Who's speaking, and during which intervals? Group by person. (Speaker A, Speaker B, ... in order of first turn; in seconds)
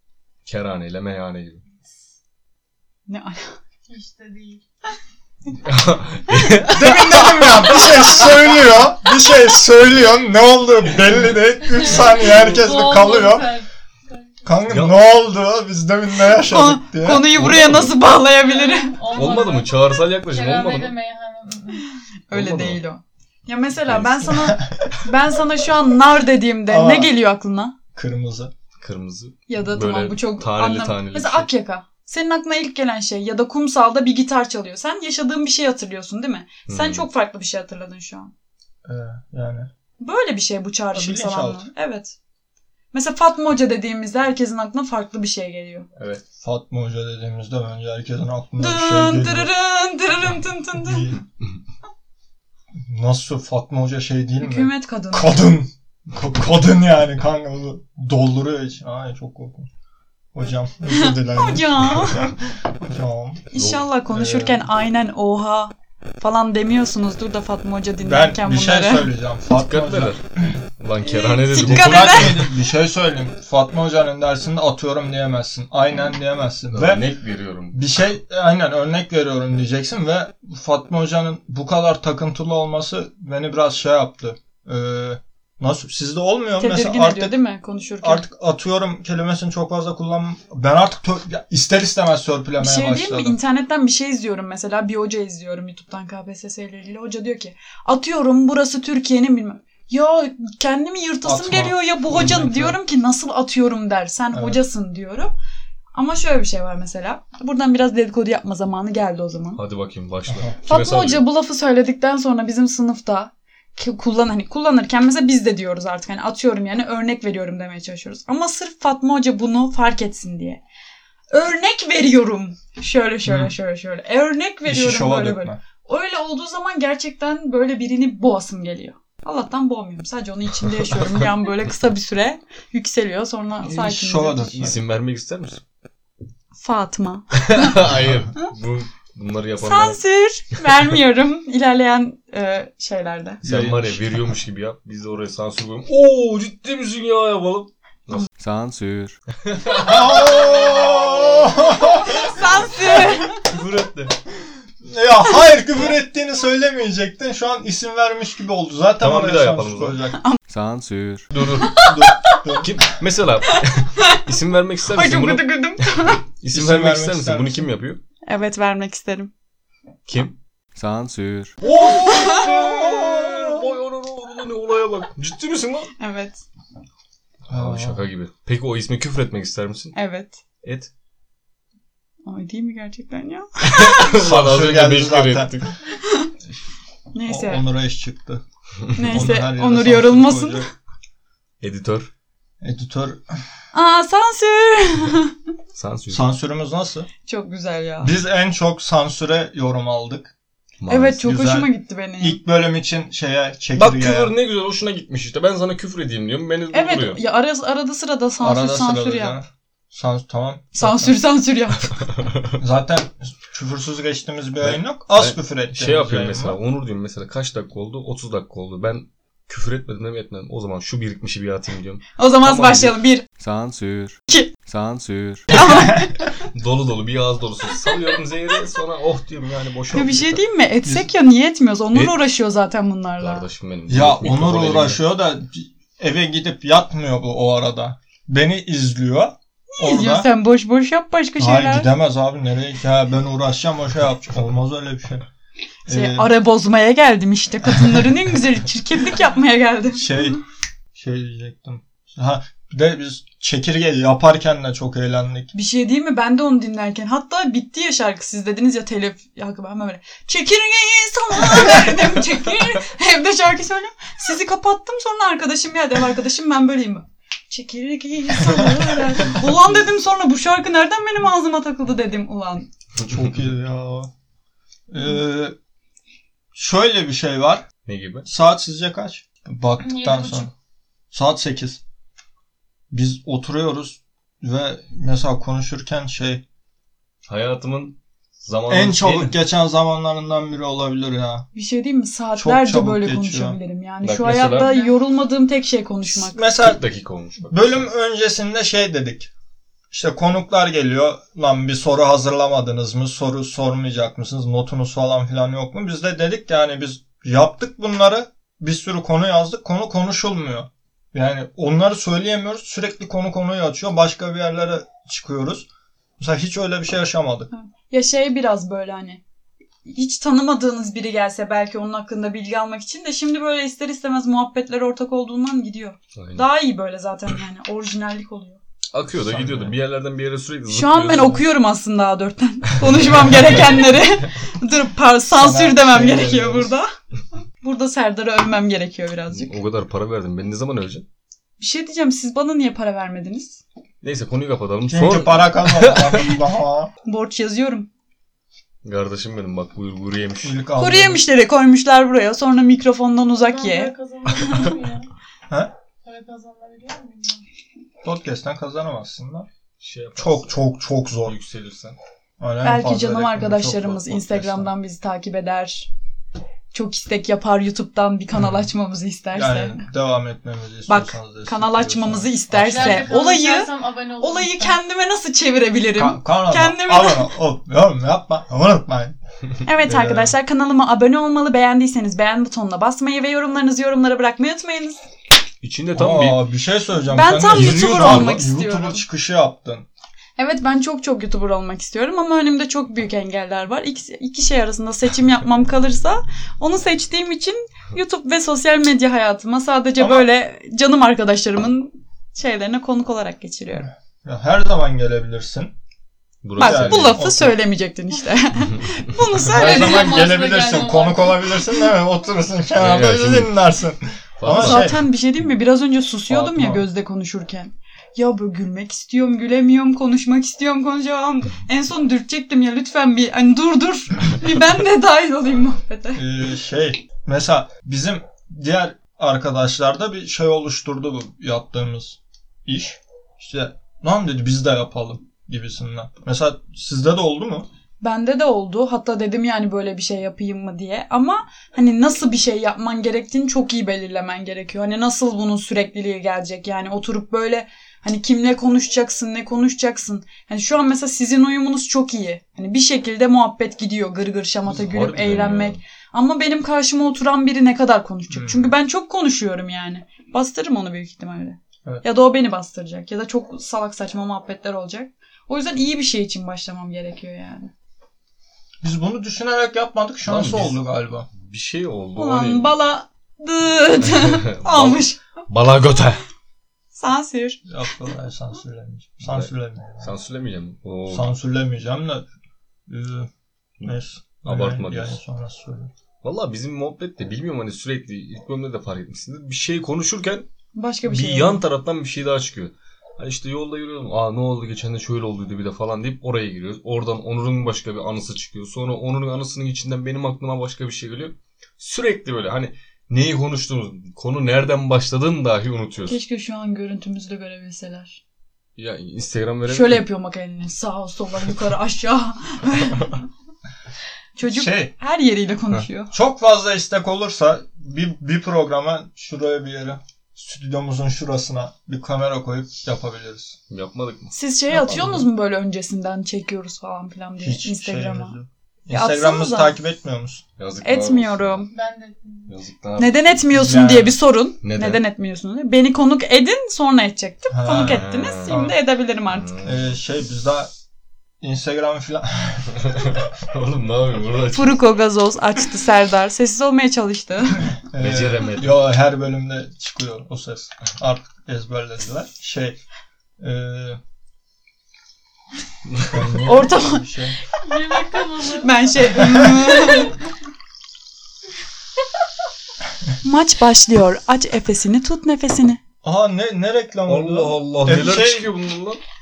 Speaker A: 0.5-1.6, 5.7-8.3, 14.7-15.0, 17.4-17.9, 19.1-21.0, 22.3-22.8, 23.9-24.3, 28.8-31.5, 36.7-37.1, 46.0-46.2, 63.5-63.9, 69.5-70.2, 70.8-72.5, 76.7-77.8, 109.6-111.2, 134.6-135.6, 137.4-140.0, 143.4-148.3, 149.5-151.6, 153.0-154.2, 159.0-160.0, 161.3-161.9, 162.6-168.0, 170.1-170.4, 171.6-175.9, 177.5-180.0, 180.6-180.9, 183.7-185.7, 191.6-192.1, 195.8-196.3, 200.8-201.2, 203.8-207.2, 214.6-223.0, 226.5-230.4, 233.2-235.0, 277.9-278.3, 287.3-289.4, 294.0-294.7, 296.6-297.9, 326.2-326.5, 328.9-331.5, 339.3-341.1, 344.0-346.4, 348.8-350.6, 359.8-360.6, 361.2-362.0, 385.6-386.4, 387.5-388.4, 406.4-407.2, 412.8-413.6, 414.4-415.0, 454.7-455.8, 470.2-470.8, 471.3-472.7, 474.0-476.2, 479.2-479.5, 480.0-481.3, 483.8-485.2, 486.2-490.5, 491.0-506.2, 508.8-510.0, 523.7-524.3, 530.6-531.7, 532.5-533.3, 534.6-535.0, 537.8-538.7, 539.3-539.9, 542.8-544.8, 548.0-548.8, 555.9-556.2, 567.1-569.0
Speaker B: 3.1-3.5, 6.7-8.3, 16.4-19.0, 22.3-27.8, 29.5-38.3, 40.0-42.2, 42.9-45.9, 48.6-51.1, 54.4-55.4, 60.9-62.3, 63.5-69.1, 71.0-72.5, 86.6-88.3, 92.6-105.3, 106.0-109.6, 110.7-120.6, 121.3-134.6, 136.6-137.8, 139.6-143.4, 152.0-153.4, 161.6-162.4, 164.9-166.2, 168.3-169.3, 171.9-172.5, 176.0-176.4, 179.9-180.4, 182.3-184.1, 185.9-186.3, 187.1-187.6, 188.9-190.7, 193.7-195.3, 197.3-198.1, 200.9-202.4, 206.7-209.4, 210.8-212.0, 222.2-223.2, 225.5-226.2, 229.9-233.4, 239.8-241.9, 245.9-250.3, 255.5-272.7, 291.5-296.4, 317.5-319.2, 319.9-328.6, 330.7-336.9, 337.6-339.6, 341.6-343.6, 347.1-347.9, 350.8-353.9, 362.6-365.9, 366.7-369.9, 370.9-377.3, 379.7-385.0, 387.1-389.1, 390.4-403.9, 406.6-410.3, 414.5-426.2, 438.0-467.7, 472.2-475.2, 476.9-477.6, 490.8-491.6, 506.1-508.2, 509.7-513.2, 514.4-516.1, 524.3-528.4, 528.9-529.8, 530.8-531.7, 533.0-539.5, 544.5-547.7, 556.4-557.0, 558.5-560.2, 563.2-565.8
Speaker C: 3.9-4.6, 11.8-14.3, 18.4-21.9, 279.8-280.5, 294.4-295.0, 353.3-355.1, 356.1-357.4, 372.7-374.8, 409.5-411.6, 531.7-532.5, 557.6-558.8, 559.5-560.1
Speaker D: 6.7-13.6, 14.4-17.5, 24.3-25.0, 26.7-27.1, 27.9-28.5, 38.9-39.7, 40.9-41.7, 46.4-49.5, 50.8-51.2, 52.9-59.7, 60.3-63.5, 64.1-64.7, 68.0-70.5, 71.6-77.0, 77.7-87.4, 88.0-93.4, 101.2-102.8, 104.3-104.6, 110.3-110.6, 123.3-123.5, 124.7-125.6, 133.6-134.8, 143.4-144.3, 149.8-152.3, 154.8-160.2, 161.8-162.8, 166.5-167.7, 177.5-178.1, 184.2-185.7, 187.3-188.4, 189.0-190.7, 192.6-193.3, 196.1-197.1, 198.0-200.3, 201.2-204.3, 208.4-211.2, 212.6-216.6, 233.9-240.3, 241.4-245.3, 245.9-246.3, 247.7-248.1, 249.9-250.4, 250.9-255.5, 268.5-269.8, 273.0-274.1, 274.9-275.6, 276.5-277.6, 278.2-280.5, 281.1-281.8, 282.9-286.4, 288.7-291.5, 292.4-293.6, 296.1-296.8, 297.5-299.3, 299.9-315.7, 316.2-317.5, 329.1-329.8, 335.3-336.7, 344.9-346.9, 350.4-351.2, 358.0-359.5, 360.2-361.4, 362.4-364.7, 369.3-373.1, 375.9-379.1, 379.8-380.3, 385.9-389.9, 400.0-400.2, 404.2-405.7, 406.6-407.6, 409.4-415.0, 416.3-416.9, 426.1-437.7, 458.3-458.7, 468.8-471.3, 477.7-480.1, 481.1-482.3, 482.9-483.3, 483.8-485.9, 514.5-514.9, 515.8-523.6, 524.7-525.3, 527.4-530.4, 533.5-534.2, 537.5-538.8, 539.6-540.7, 541.4-543.2, 547.9-552.8, 553.4-554.0, 556.1-557.4, 559.1-559.6, 566.0-568.5
Speaker E: 148.4-149.2, 160.5-161.4, 170.8-171.6, 223.3-225.9